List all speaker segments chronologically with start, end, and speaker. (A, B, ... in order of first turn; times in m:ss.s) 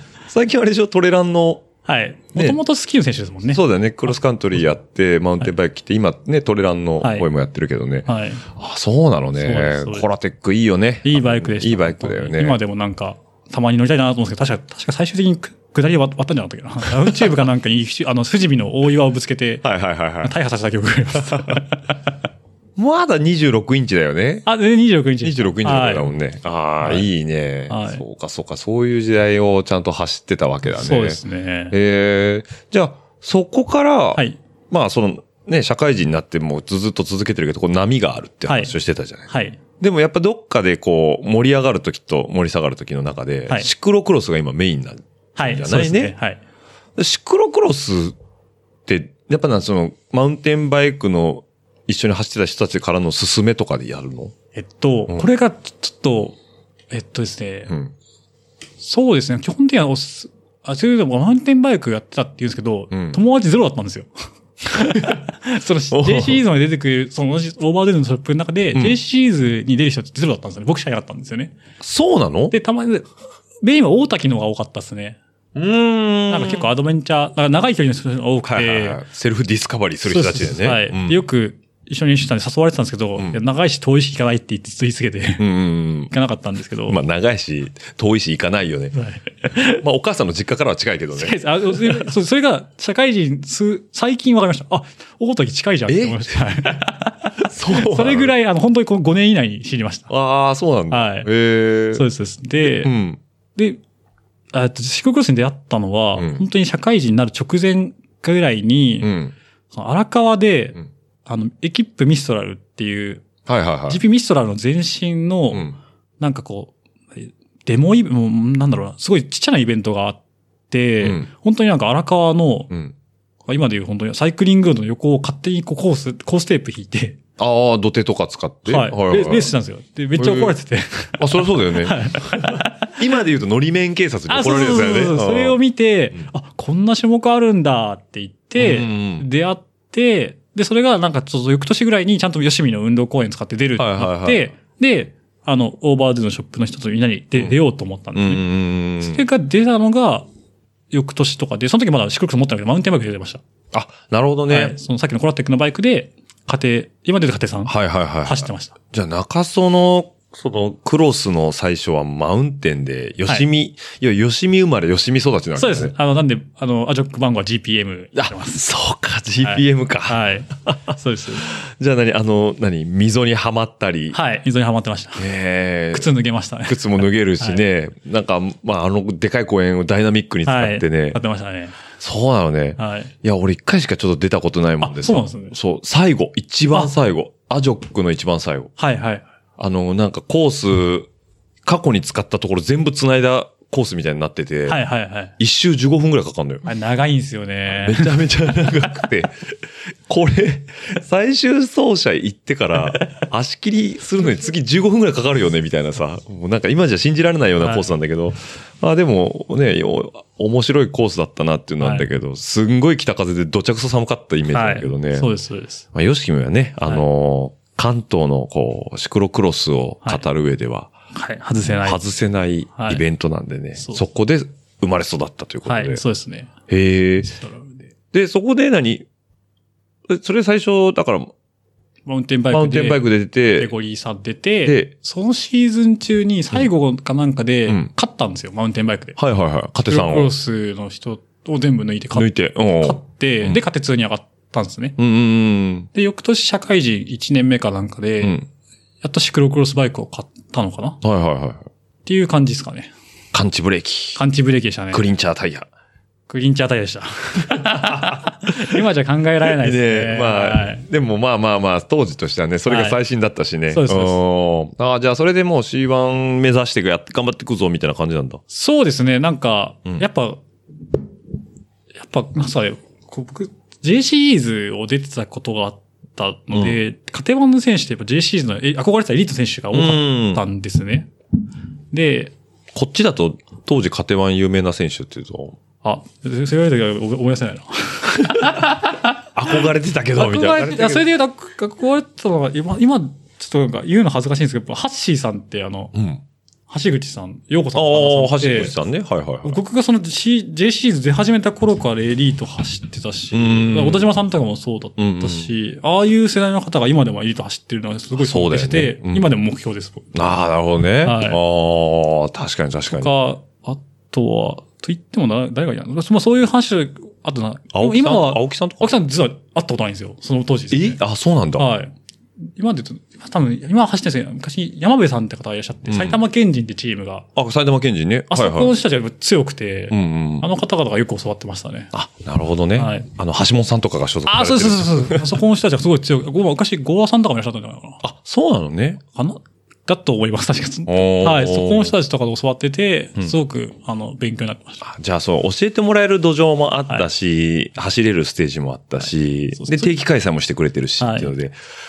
0:00.3-0:01.7 A
0:01.9-0:03.6 B
0:03.5-0:12.6 A
0:07.0-0:07.3 B
0:08.1-0:08.4 B
0:09.4-0:10.1 B
0:11.0-0:19.7 B
0:17.0-0:17.3 A
0:19.6-0:20.3 A
0:20.2-0:22.0 B
0:21.3-0:21.6 A
0:22.8-0:24.5 A
0:24.4-0:26.1 B
0:25.2-0:46.2 A
0:26.8-0:27.1 B
0:27.7-0:28.0 B
0:30.7-0:31.8 B
0:38.5-0:38.8 B
0:39.3-0:39.6 B
0:45.4-0:46.4 B
0:47.0-0:48.2 A
0:48.9-0:54.3 A
0:54.6-0:56.4 B
0:56.9-0:57.7 B
0:57.7-0:57.9 A
0:58.8-1:04.1 B
1:02.9-1:03.2 A
1:04.7-1:11.6 B
1:05.9-1:06.4 A
1:11.8-1:12.6 A
1:12.5-1:13.1 B
1:13.6-1:15.2 B
1:15.6-1:16.7 A
1:16.3-1:19.0 B
1:18.5-1:21.2 A
1:20.1-1:25.4 B
1:25.4-1:26.1 A
1:26.1-1:27.0 B
1:26.9-1:29.0 A
1:29.0-1:29.8 B
1:29.5-1:32.1 A
1:31.2-1:40.1 B
1:35.9-1:36.7 A
1:37.4-1:38.3 A
1:40.1-1:42.0 A
1:40.9-1:41.3 B
1:41.9-1:42.9 B
1:42.6-1:43.2 A
1:44.5-1:49.1 B
1:46.2-1:46.4 A
1:49.0-1:49.3 A
1:49.7-1:53.3 B
1:53.5-1:54.0 A
1:53.9-2:00.2 B
2:00.7-2:02.7 B
2:01.0-2:01.3 A
2:03.5-2:07.2 B
2:07.4-2:09.5 A
2:08.7-2:12.9 B
2:10.2-2:10.6 A
2:11.2-2:15.6 A
2:14.3-2:28.5 B
2:18.6-2:19.3 A
2:23.8-2:24.5 A
2:28.2-2:29.2 A
2:29.0-2:30.3 B
2:30.9-2:33.4 B
2:33.7-2:34.8 A
2:34.5-2:38.7 B
2:37.7-2:45.9 A
2:45.6-2:48.6 B
2:48.2-2:54.2 A
2:49.4-2:51.5 B
2:54.1-2:55.3 B
2:55.2-2:56.1 A
2:55.9-2:57.6 B
2:56.6-3:01.2 A
3:00.4-3:01.8 B
3:02.0-3:08.7 A
3:02.8-3:03.1 B
3:04.8-3:05.6 B
3:08.8-3:09.3 B
3:09.6-3:11.1 A
3:11.6-3:14.8 A
3:14.7-3:15.3 B
3:15.4-3:16.6 A
3:16.6-3:19.0 B
3:17.7-3:35.3 A
3:27.6-3:27.9 B
3:31.8-3:32.1 B
3:34.5-3:35.8 B
3:35.9-3:40.9 A
3:41.1-3:42.0 B
3:41.8-3:46.0 A
3:42.8-3:43.0 B
3:43.8-3:44.0 B
3:45.7-3:46.5 B
3:46.7-3:47.3 A
3:47.2-3:47.9 B
3:48.1-3:49.1 A
3:50.1-3:51.3 A
3:52.1-3:59.2 B
3:52.5-3:53.7 A
3:54.6-3:54.9 A
3:59.2-4:00.3 A
3:59.8-4:05.0 B
4:02.1-4:03.6 A
4:05.0-4:05.9 A
4:05.9-4:08.4 B
4:08.2-4:08.5 A
4:09.0-4:11.0 B
4:11.0-4:11.7 A
4:12.1-4:12.9 B
4:13.3-4:14.2 A
4:14.2-4:15.0 B
4:14.9-4:15.7 A
4:16.3-4:20.8 B
4:17.5-4:18.8 A
4:19.4-4:28.4 A
4:22.7-4:23.0 B
4:23.7-4:24.2 B
4:28.5-4:30.4 B
4:32.0-4:41.1 B
4:36.5-4:36.8 A
4:39.7-4:40.4 A
4:41.9-4:42.3 B
4:42.7-4:45.6 A
4:45.8-4:49.1 B
4:49.4-4:51.1 A
4:50.2-4:55.9 B
4:55.9-4:56.2 A
4:56.7-4:58.8 B
4:57.8-4:59.6 A
4:59.4-5:10.1 B
5:03.3-5:04.1 A
5:05.0-5:05.5 A
5:08.2-5:09.3 A
5:10.1-5:13.1 A
5:11.0-5:11.4 B
5:12.9-5:21.0 B
5:17.7-5:19.0 A
5:20.7-5:21.7 A
5:21.6-5:27.3 B
5:25.9-5:26.2 A
5:27.4-5:28.8 A
5:28.3-5:31.9 B
5:29.9-5:30.5 A
5:31.9-5:35.4 A
5:32.8-5:33.1 B
5:34.3-5:38.0 B
5:38.0-5:39.0 A
5:39.1-5:44.8 B
5:40.9-5:42.0 A
5:44.8-5:51.6 A
5:49.6-5:50.0 B
5:51.0-5:51.3 B